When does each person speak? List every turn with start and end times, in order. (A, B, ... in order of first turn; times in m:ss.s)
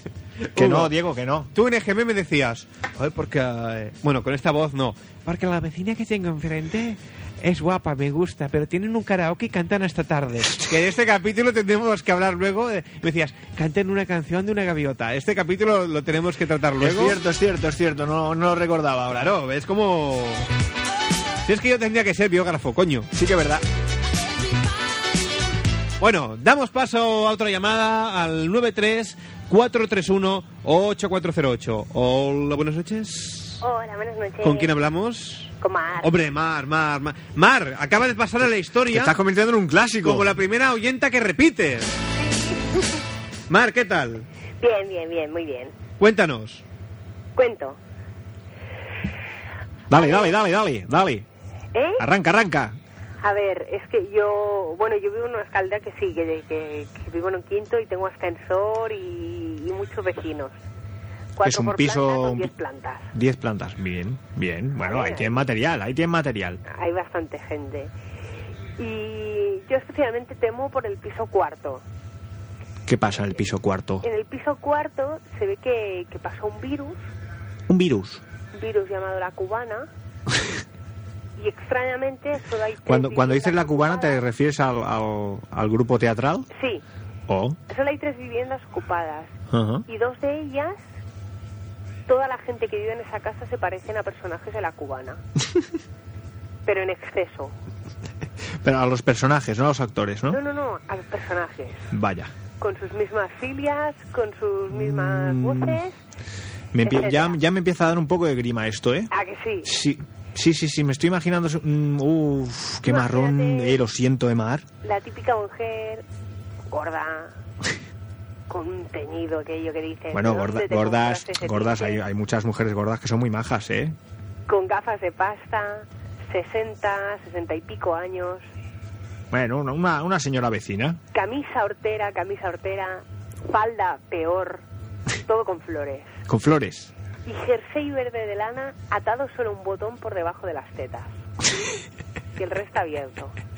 0:00.4-0:01.0 A
0:00.6-0:01.5 B
0:01.5-0:17.2 A
0:16.8-0:19.4 B
0:19.1-0:20.5 A
0:21.4-0:23.1 A
0:23.1-0:23.6 B
0:26.0-0:33.6 A
0:33.6-0:34.7 C
0:34.4-0:39.2 A
0:35.6-0:36.1 C
0:38.9-0:40.3 B
0:40.0-0:41.9 A
0:42.3-0:42.6 C
0:43.5-0:44.3 A
0:44.6-0:45.7 C
0:46.0-0:46.6 A
0:47.4-0:47.8 C
0:49.9-0:51.3 B
0:49.9-0:50.3 C
0:51.7-0:52.0 C
0:52.0-0:52.8 B
0:53.2-1:00.6 C
1:01.4-1:03.1 C
1:01.4-1:02.5 B
1:03.1-1:06.6 B
1:04.9-1:05.4 C
1:06.7-1:07.9 C
1:08.8-1:11.8 C
1:12.9-1:14.0 B
1:14.0-1:17.0 C
1:17.7-1:18.2 B
1:18.5-1:19.9 C
1:21.4-1:24.2 C
1:22.9-1:26.5 B
1:26.5-1:26.8 C
1:27.3-1:27.6 B
1:27.7-1:29.4 C
1:29.5-1:29.8 B
1:29.9-1:30.8 C
1:32.1-1:35.2 C
1:36.7-1:37.5 C
1:38.6-1:40.4 B
1:40.3-1:41.9 C
1:41.9-1:42.3 B
1:42.6-1:46.0 C
1:44.7-1:45.8 B
1:46.7-1:49.1 B
1:46.8-1:47.4 C
1:49.1-1:49.7 C
1:49.6-1:54.7 B
1:52.9-1:53.8 C
1:54.8-1:56.0 C
1:56.7-1:57.3 C
1:58.5-2:02.0 C
2:00.1-2:04.0 B
2:04.5-2:08.4 C
2:09.3-2:11.0 B
2:11.1-2:14.6 C
2:15.2-2:16.2 C
2:16.3-2:16.9 B
2:17.3-2:21.1 C
2:22.4-2:23.4 C